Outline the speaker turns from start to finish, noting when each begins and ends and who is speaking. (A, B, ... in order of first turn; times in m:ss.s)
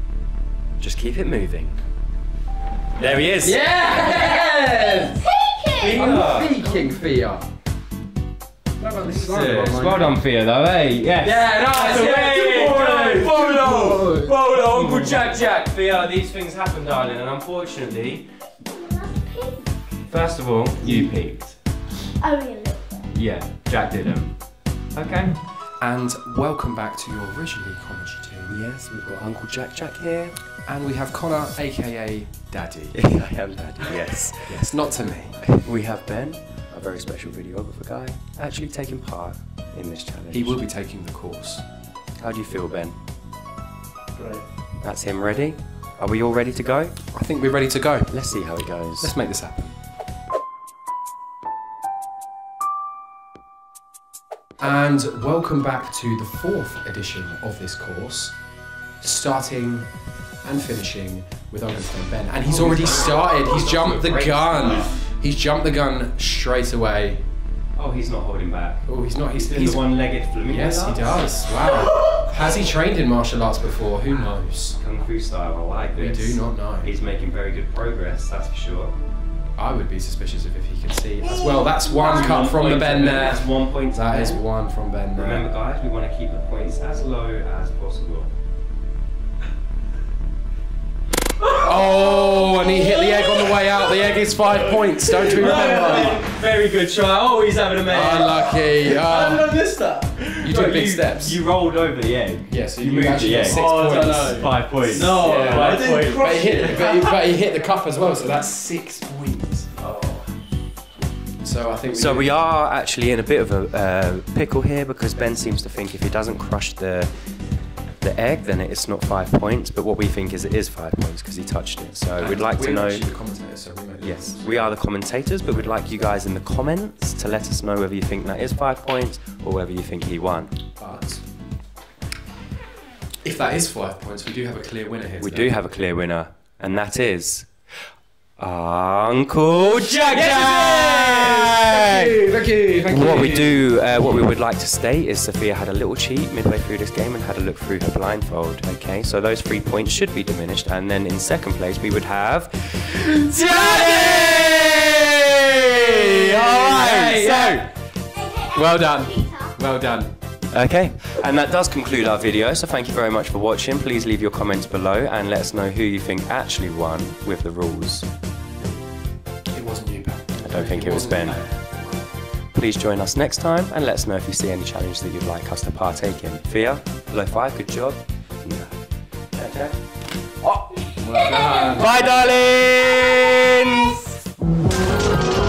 0:00.8-0:01.8 A
0:03.0-0:03.6 A
0:03.3-0:05.2 B
0:04.9-0:06.1 C
0:05.8-0:06.5 A
0:05.9-0:07.4 B
0:08.8-0:10.2 B
0:09.0-0:18.2 A
0:11.2-0:15.3 B
0:18.7-0:19.7 C
0:20.1-0:21.5 A
0:20.8-0:21.1 B
0:22.2-0:23.1 C
0:23.1-0:24.4 A
0:24.9-0:25.4 A
0:25.8-0:28.6 B
0:28.5-0:30.3 A
0:30.6-0:33.0 B
0:32.9-0:34.8 A
0:34.4-0:35.4 B
0:35.4-0:40.6 A
0:40.3-0:41.6 B
0:42.2-0:43.0 A
0:44.1-0:44.4 D
0:44.8-0:46.9 A
0:47.1-0:48.2 B
0:48.1-0:49.1 A
0:49.0-0:49.7 B
0:54.6-0:58.4 B
0:59.0-0:59.9 B
1:00.4-1:07.2 B
1:02.4-1:05.0 A
1:07.8-1:11.2 A
1:08.8-1:09.9 B
1:10.4-1:14.8 B
1:14.8-1:18.9 A
1:16.0-1:16.9 B
1:19.6-1:25.5 B
1:21.6-1:24.4 A
1:25.1-1:28.3 A
1:31.6-1:36.2 B
1:34.4-1:36.2 D
1:35.3-1:38.4 A
1:37.9-1:39.5 B
1:38.4-1:40.4 D
1:40.4-1:41.4 B
1:40.4-1:46.1 A
1:42.5-1:49.7 B
1:43.4-1:47.2 D
1:49.7-1:50.2 D
1:51.4-1:52.3 B
1:51.9-1:57.1 A
1:58.0-2:03.1 A
2:02.2-2:04.8 B
2:04.0-2:10.5 A
2:10.8-2:11.2 B
2:13.2-2:15.6 B
2:15.2-2:17.5 A
2:18.4-2:22.1 A
2:19.9-2:24.3 B
2:22.9-2:37.6 A
2:33.1-2:37.6 B
2:38.1-2:39.6 C
2:38.5-2:40.1 B
2:40.5-2:48.1 A
2:49.5-2:52.1 B
2:50.4-2:51.4 A
2:52.5-2:58.8 A
2:59.3-2:59.8 A
3:00.4-3:04.1 A
3:01.0-3:01.9 B